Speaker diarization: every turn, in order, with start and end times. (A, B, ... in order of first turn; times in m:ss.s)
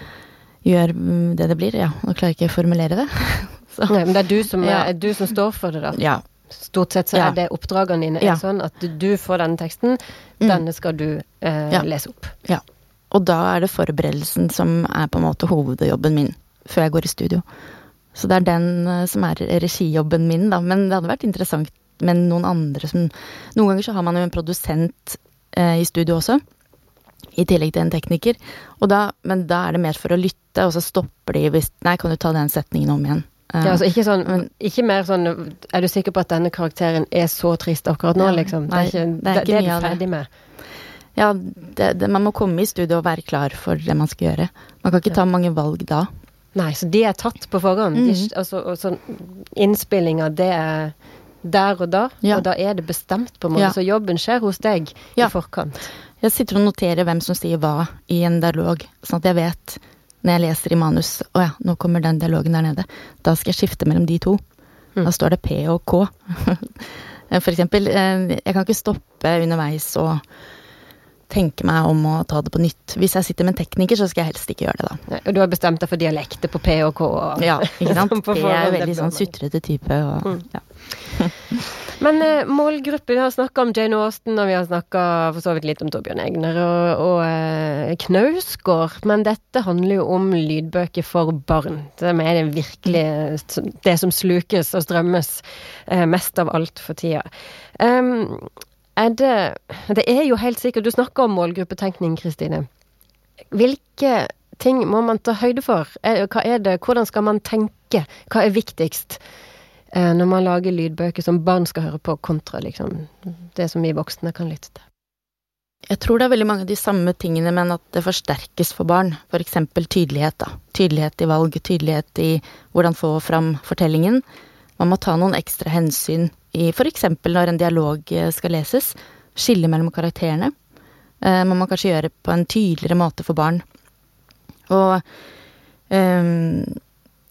0:00.6-0:03.9 A
0:03.9-0:06.0 B
0:04.6-0:04.9 A
0:06.0-0:06.2 A
0:06.6-0:12.4 B
0:12.4-0:17.4 A
0:18.1-0:26.4 A
0:27.4-0:34.5 A
0:33.6-0:40.3 B
0:38.2-0:40.0 A
0:41.2-0:46.1 A
0:46.6-0:55.9 B
0:48.0-0:48.3 A
0:56.2-1:04.4 A
1:05.0-1:10.2 A
1:11.3-1:15.0 A
1:15.1-1:19.3 B
1:17.4-1:21.3 A
1:22.0-1:42.7 B
1:43.5-1:49.2 B
1:49.9-1:54.8 B
1:55.9-2:04.2 A
2:04.8-2:10.5 A
2:11.2-2:13.6 A
2:14.7-2:15.0 A
2:15.9-2:16.8 A